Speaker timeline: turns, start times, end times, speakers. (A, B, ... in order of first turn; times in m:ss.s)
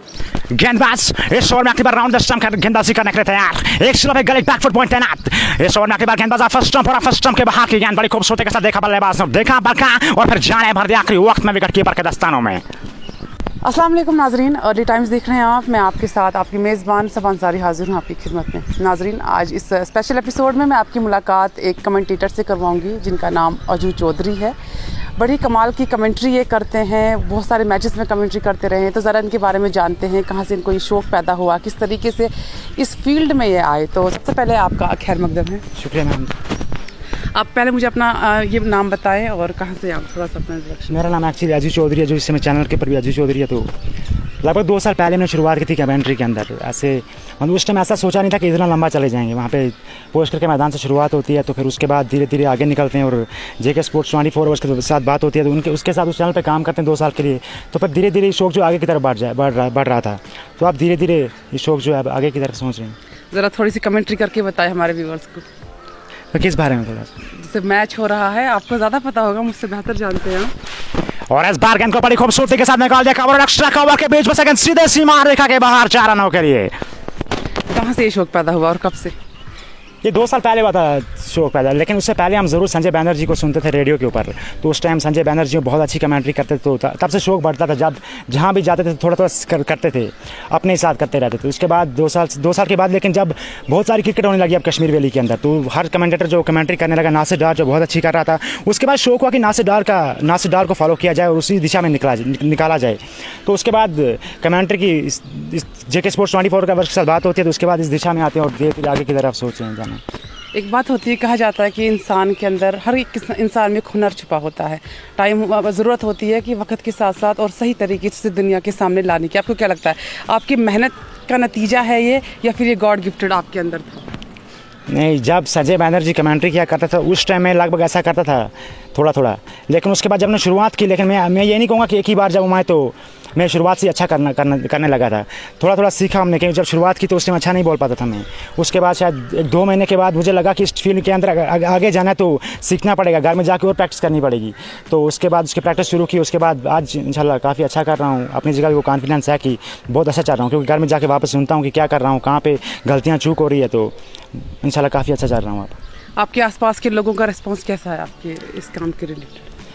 0:00.5-0:12.6 A
0:13.6-0:24.6 B
0:25.2-0:35.6 B
0:35.8-0:36.3 A
0:37.3-0:40.9 B
0:40.9-0:43.7 A
0:44.4-1:03.0 A
1:03.3-1:05.4 B
1:06.3-1:07.1 A
1:07.3-1:10.5 B
1:11.3-1:16.7 A
1:17.7-1:19.1 B
1:20.0-1:50.0 A
1:50.5-2:04.0 B
2:04.9-2:33.9 A
2:34.6-2:35.8 A
2:36.2-2:39.4 B